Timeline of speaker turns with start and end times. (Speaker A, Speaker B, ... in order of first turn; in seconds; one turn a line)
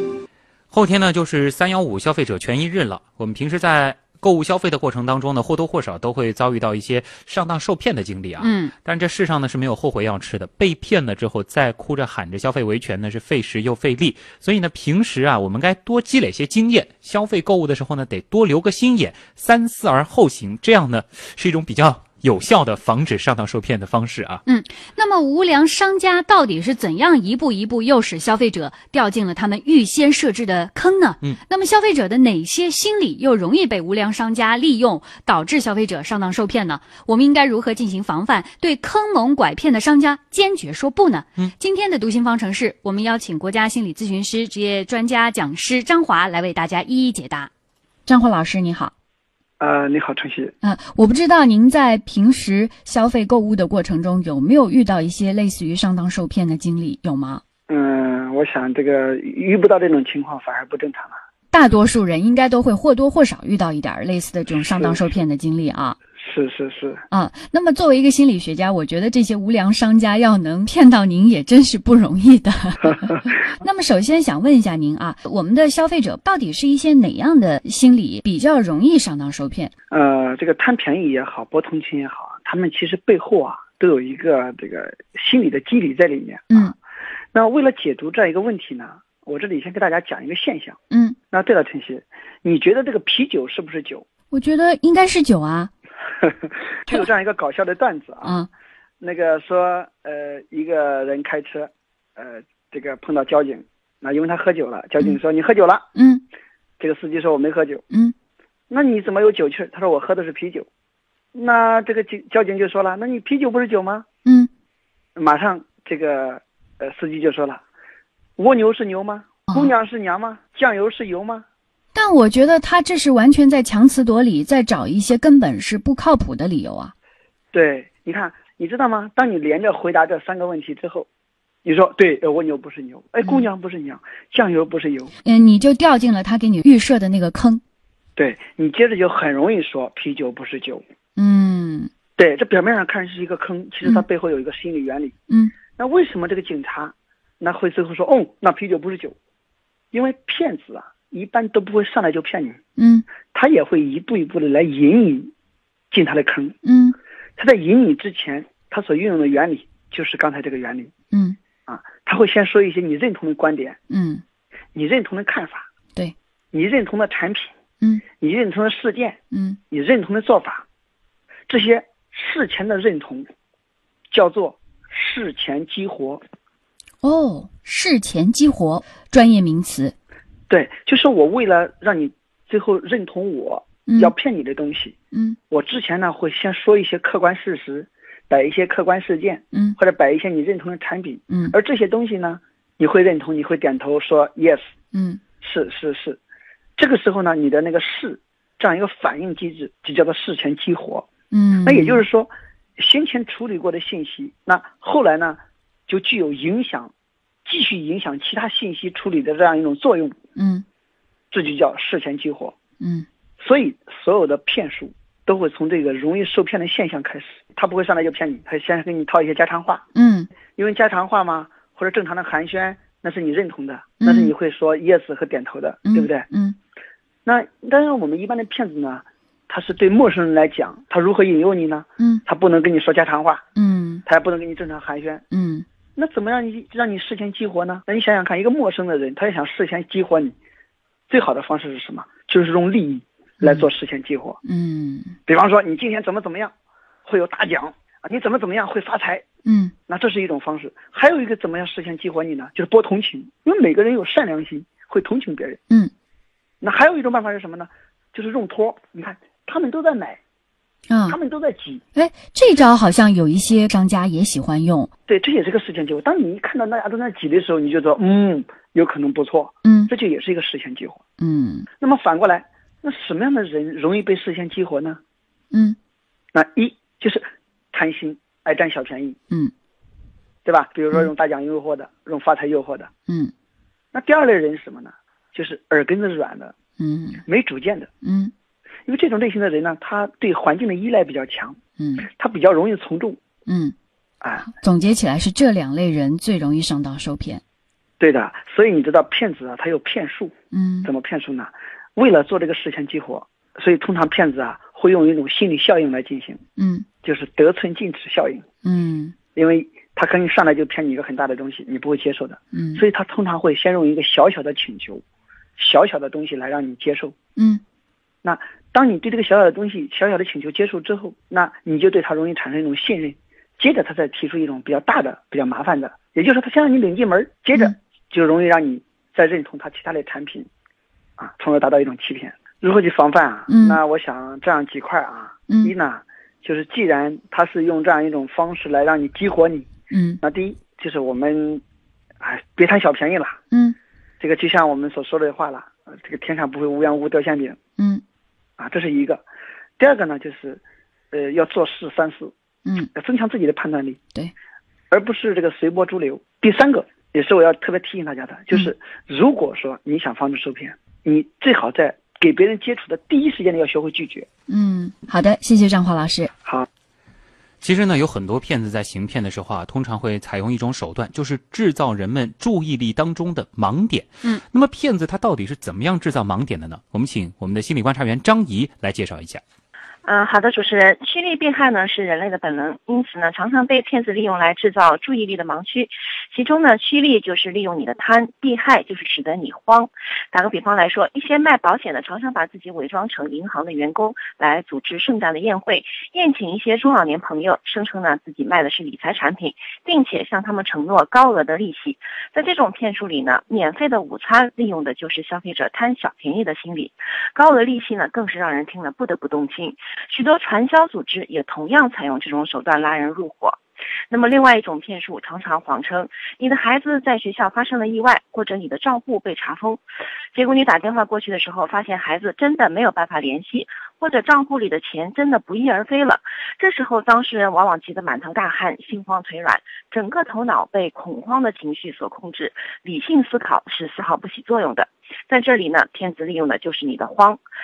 Speaker A: 0.7-24.4
Speaker B: 24.5-47.5
Speaker B: 48.0-48.9
Speaker C: 49.6-50.5
Speaker B: 50.6-57.4
Speaker C: 57.7-61.1
Speaker B: 61.5-66.0
Speaker C: 64.7-65.1
Speaker C: 66.2-67.0
Speaker B: 67.1-79.7
Speaker C: 79.9-86.7
Speaker C: 87.3-90.8
Speaker B: 90.9-91.2
Speaker C: 91.3-94.0
Speaker B: 94.3-95.7
Speaker C: 96.8-98.4
Speaker B: 98.2-98.5
Speaker C: 99.0-105.9
Speaker B: 105.9-106.2
Speaker C: 106.8-107.8
Speaker C: 108.7-110.7
Speaker C: 111.3-114.0
Speaker B: 114.2-114.5
Speaker C: 115.2-117.6
Speaker C: 118.4-121.4
Speaker B: 121.9-126.9
Speaker C: 127.5-131.1
Speaker C: 131.6-135.1
Speaker B: 135.2-137.6
Speaker C: 138.2-140.8
Speaker B: 141.2-141.9
Speaker C: 142.2-145.1
Speaker B: 145.3-145.5
Speaker C: 145.8-149.2
Speaker C: 149.9-152.6
Speaker B: 152.8-153.0
Speaker C: 153.3-155.3
Speaker C: 155.9-156.6
Speaker B: 156.6-156.9
Speaker C: 157.4-160.9
Speaker B: 161.1-161.4
Speaker C: 161.7-163.8
Speaker B: 163.9-164.2
Speaker C: 164.7-165.7
Speaker C: 166.5-167.5
Speaker C: 168.2-169.2
Speaker B: 169.3-169.6
Speaker C: 169.7-170.6
Speaker C: 171.5-173.3
Speaker C: 174.1-176.2
Speaker B: 177.0-179.9
Speaker C: 180.5-184.9
Speaker B: 183.8-184.1
Speaker B: 185.1-185.4
Speaker C: 185.5-194.7
Speaker B: 191.3-191.5
Speaker B: 194.9-195.2
Speaker C: 195.4-196.2
Speaker C: 196.8-201.1
Speaker B: 201.3-202.0
Speaker C: 201.6-206.9
Speaker C: 207.4-210.2
Speaker B: 210.3-210.6
Speaker C: 211.3-212.5
Speaker B: 212.8-213.1
Speaker C: 213.4-219.8
Speaker B: 219.9-220.3
Speaker C: 220.5-226.3
Speaker B: 224.0-224.3
Speaker B: 225.8-226.6
Speaker C: 227.2-233.4
Speaker B: 233.6-234.0
Speaker C: 234.1-235.2
Speaker B: 235.3-235.6
Speaker C: 235.9-240.3
Speaker C: 241.1-244.4
Speaker B: 244.4-245.1
Speaker C: 245.3-246.5
Speaker C: 247.0-249.2
Speaker B: 249.4-249.7
Speaker C: 249.9-255.6
Speaker C: 256.6-260.2
Speaker B: 260.9-261.2
Speaker C: 261.1-261.8
Speaker B: 261.9-264.9
Speaker C: 265.1-271.0
Speaker B: 269.6-269.9
Speaker B: 271.2-271.7
Speaker C: 271.8-275.0
Speaker B: 275.5-275.8
Speaker C: 276.3-279.2
Speaker C: 280.4-282.9
Speaker B: 283.1-283.3
Speaker C: 283.9-286.5
Speaker B: 286.8-287.2
Speaker C: 287.2-287.9
Speaker B: 288.0-288.3
Speaker C: 288.9-293.2
Speaker B: 291.8-292.1
Speaker B: 293.5-293.7
Speaker B: 294.4-297.4
Speaker C: 298.0-300.3
Speaker B: 300.5-300.9
Speaker C: 300.8-306.4
Speaker B: 306.6-306.9
Speaker C: 307.0-308.4
Speaker B: 308.6-309.1
Speaker C: 309.3-315.0
Speaker B: 312.5-312.8
Speaker C: 315.6-317.1
Speaker B: 317.4-317.6
Speaker C: 318.2-330.5
Speaker C: 331.2-339.7
Speaker B: 333.5-333.8
Speaker B: 339.9-340.2
Speaker C: 340.2-341.6
Speaker C: 342.2-343.4
Speaker B: 343.5-343.8
Speaker C: 344.2-347.6
Speaker B: 347.8-348.0
Speaker C: 348.6-349.2
Speaker C: 349.8-350.6
Speaker C: 351.1-352.3
Speaker C: 352.9-354.0
Speaker C: 354.9-364.3
Speaker B: 364.5-366.3
Speaker A: 367.6-379.4
Speaker D: 380.0-413.6
Speaker D: 414.1-419.8
Speaker D: 420.3-437.4